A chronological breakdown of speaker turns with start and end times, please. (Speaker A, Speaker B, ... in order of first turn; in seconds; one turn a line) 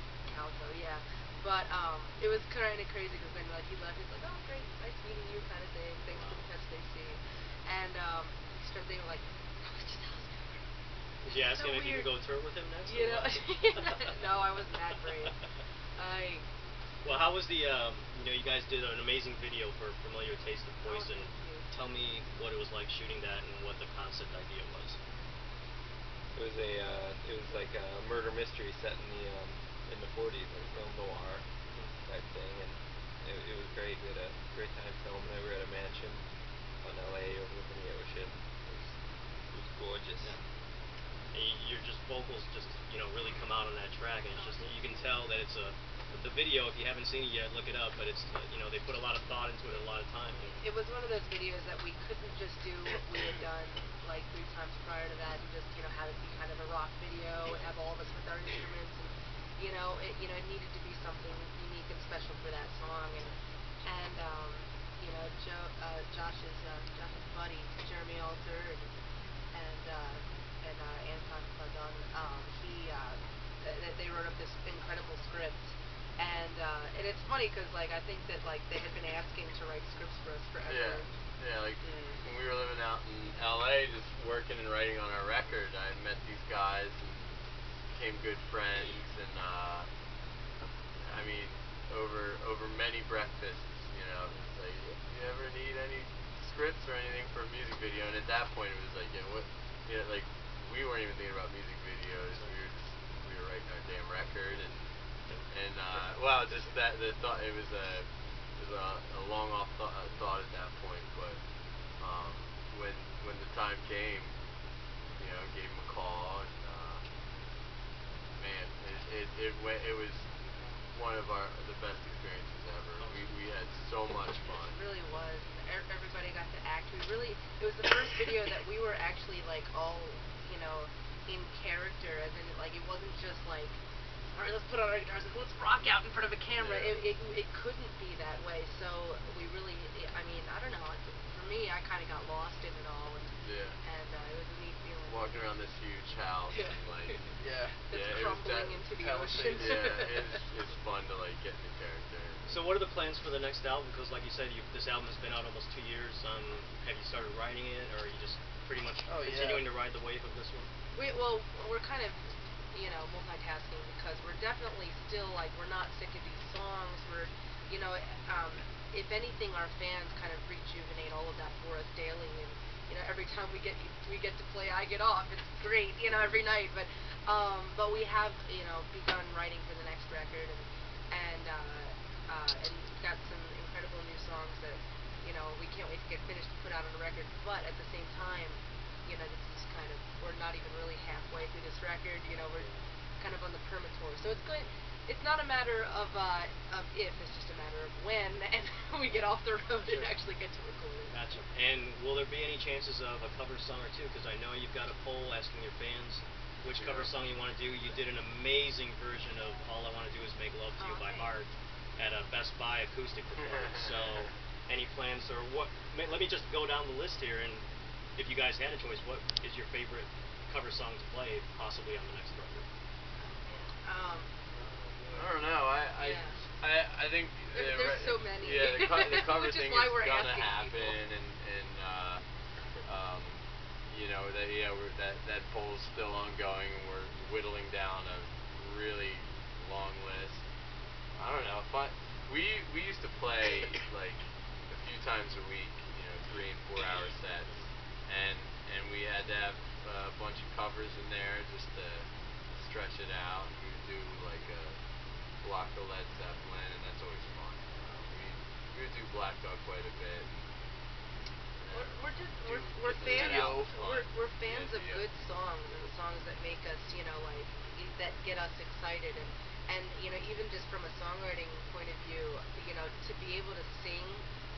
Speaker A: 0.2-10.7
Speaker B: 6.1-6.5
Speaker B: 11.2-13.7
Speaker A: 11.3-12.1
Speaker A: 12.9-15.4
Speaker A: 16.0-16.4
Speaker B: 17.0-25.0
Speaker A: 20.9-21.7
Speaker C: 26.3-31.4
Speaker C: 32.0-36.2
Speaker C: 36.8-38.9
Speaker C: 39.5-40.4
Speaker B: 41.3-50.5
Speaker A: 44.4-45.1
Speaker A: 50.4-68.9
Speaker A: 69.5-81.1
Speaker D: 80.7-87.4
Speaker E: 81.8-82.2
Speaker D: 87.9-89.9
Speaker D: 91.0-104.9
Speaker D: 105.5-108.1
Speaker D: 108.6-111.4
Speaker D: 112.0-114.3
Speaker D: 115.2-117.0
Speaker D: 118.4-120.3
Speaker D: 120.9-124.8
Speaker A: 124.6-133.8
Speaker A: 134.3-145.4
Speaker D: 136.6-137.0
Speaker D: 143.4-143.8
Speaker D: 145.1-147.3
Speaker A: 146.5-147.2
Speaker E: 147.4-147.8
Speaker A: 147.9-150.4
Speaker D: 147.9-148.9
Speaker E: 148.9-149.9
Speaker D: 149.5-152.5
Speaker B: 152.5-160.7
Speaker E: 159.1-159.7
Speaker A: 160.9-201.1
Speaker B: 201.1-217.6
Speaker D: 206.7-207.1
Speaker A: 210.8-211.3
Speaker D: 213.7-214.1
Speaker B: 218.2-222.7
Speaker A: 223.2-224.3
Speaker E: 224.6-225.2
Speaker D: 225.1-232.2
Speaker A: 226.0-226.4
Speaker A: 227.5-231.0
Speaker D: 232.8-240.4
Speaker D: 241.2-254.8
Speaker D: 255.4-260.3
Speaker D: 261.6-265.1
Speaker A: 261.7-274.2
Speaker E: 262.8-263.8